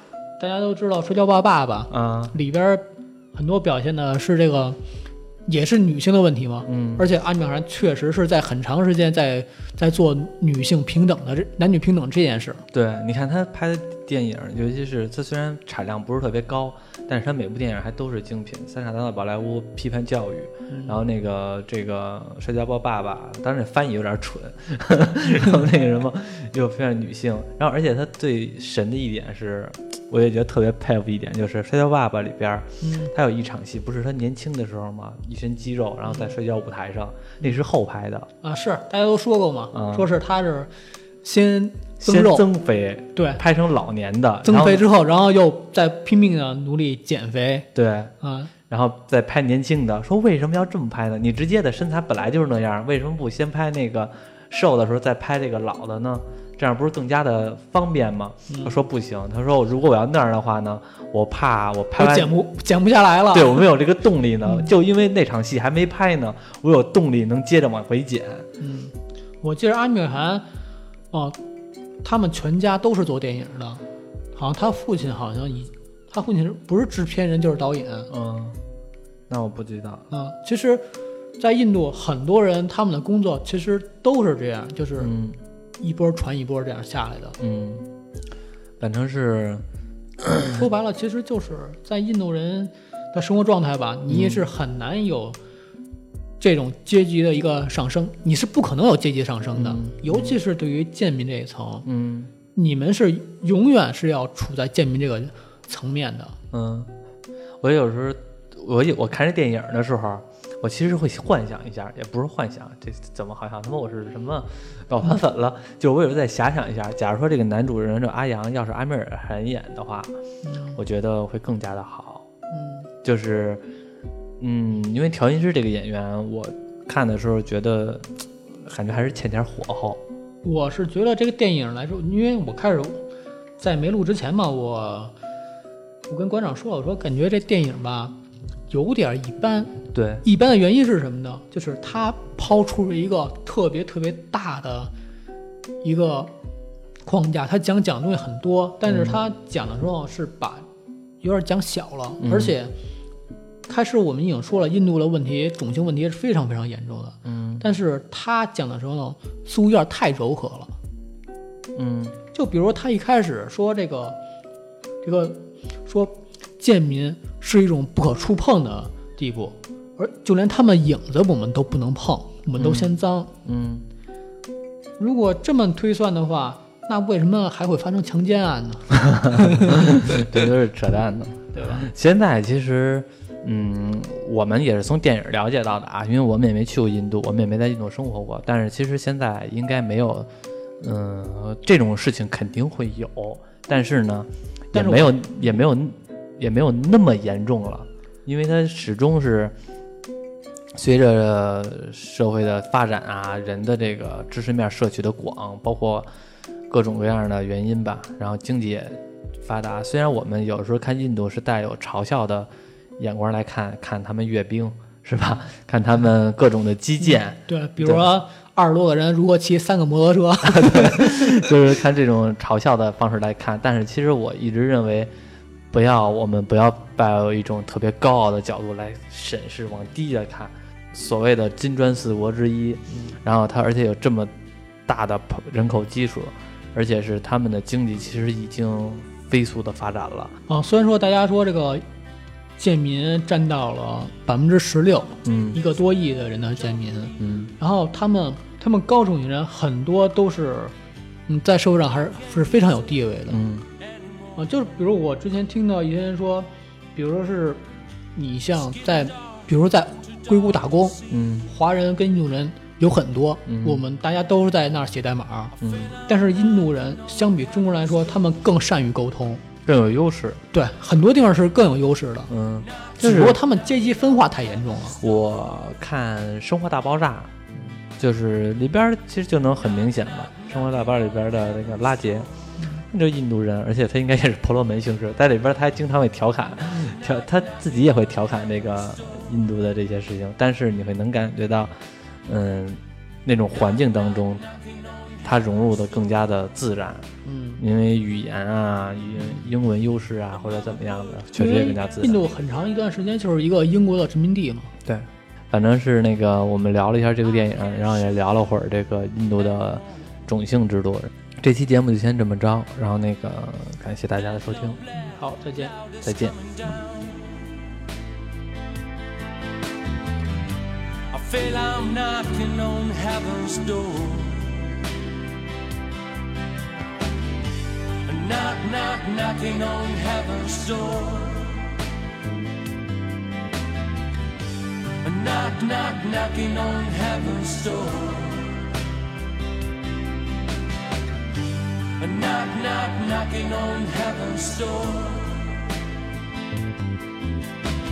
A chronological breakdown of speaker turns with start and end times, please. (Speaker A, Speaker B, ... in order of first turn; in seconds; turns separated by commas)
Speaker A: 0.4-2.8, Speaker B: 1.9-2.4, Speaker A: 3.4-4.8, Speaker A: 5.5-12.6, Speaker B: 6.7-7.1, Speaker B: 12.7-38.3, Speaker A: 20.7-21.0, Speaker A: 32.8-33.1, Speaker A: 36.1-36.3, Speaker A: 38.4-40.7, Speaker B: 39.7-40.1, Speaker A: 41.2-42.5, Speaker B: 42.0-44.9, Speaker A: 43.2-43.4, Speaker A: 44.4-47.7, Speaker B: 47.8-48.1, Speaker A: 48.2-48.5, Speaker B: 48.7-62.3, Speaker A: 58.5-58.7, Speaker A: 62.0-63.7, Speaker B: 63.3-68.5, Speaker A: 68.6-70.5, Speaker A: 71.1-71.4, Speaker A: 72.0-73.8, Speaker A: 74.3-78.1, Speaker B: 78.1-78.6, Speaker B: 79.3-80.1, Speaker A: 80.1-80.9, Speaker A: 81.4-85.1, Speaker B: 85.0-85.4, Speaker A: 85.8-87.4, Speaker B: 87.4-87.9, Speaker B: 88.8-89.6, Speaker B: 90.2-90.6, Speaker A: 90.3-95.4, Speaker B: 94.1-94.5, Speaker A: 96.4-101.9, Speaker B: 99.6-100.4, Speaker B: 101.8-102.3, Speaker A: 102.5-106.4, Speaker B: 106.5-106.9, Speaker B: 107.6-120.1, Speaker A: 120.4-120.8, Speaker B: 120.8-122.3, Speaker A: 122.5-122.9, Speaker B: 123.0-123.6, Speaker B: 124.4-130.0, Speaker A: 130.4-133.0, Speaker A: 133.6-135.1, Speaker A: 136.1-138.2, Speaker A: 138.7-144.9, Speaker B: 139.9-140.2, Speaker A: 145.8-146.3, Speaker A: 147.1-150.7, Speaker B: 148.9-149.2, Speaker A: 151.2-152.7, Speaker B: 152.2-152.5, Speaker A: 153.7-160.7, Speaker B: 157.2-157.7, Speaker B: 161.8-162.2, Speaker A: 162.3-164.2, Speaker A: 165.0-173.3, Speaker B: 172.6-172.9, Speaker B: 173.4-173.9, Speaker A: 175.0-180.2, Speaker B: 179.1-190.3, Speaker A: 181.5-181.8, Speaker B: 190.8-199.6, Speaker A: 194.7-195.3, Speaker B: 200.8-206.1, Speaker B: 206.7-218.1, Speaker A: 217.0-221.4, Speaker B: 220.4-225.1, Speaker B: 225.7-234.3, Speaker B: 234.9-240.4, Speaker A: 240.5-241.8, Speaker A: 242.6-250.8, Speaker B: 245.2-245.6, Speaker B: 247.2-247.5, Speaker A: 251.3-253.4, Speaker B: 253.3-253.7, Speaker A: 254.4-257.6, Speaker A: 258.1-265.6, Speaker B: 261.1-261.5, Speaker B: 263.5-263.8, Speaker B: 265.6-266.0, Speaker A: 266.1-269.4, Speaker B: 269.7-270.4, Speaker A: 270.5-272.3, Speaker B: 272.3-273.4, Speaker A: 273.0-275.0, Speaker B: 275.0-282.3, Speaker B: 282.9-291.7, Speaker B: 292.3-294.4, Speaker C: 294.4-295.2, Speaker B: 295.2-302.2, Speaker A: 297.2-297.6, Speaker A: 301.4-304.7, Speaker B: 304.9-314.8, Speaker A: 315.0-315.8, Speaker C: 315.8-317.1, Speaker B: 316.0-316.4, Speaker C: 321.1-324.6, Speaker C: 328.1-331.7, Speaker C: 335.0-338.7, Speaker C: 342.0-345.6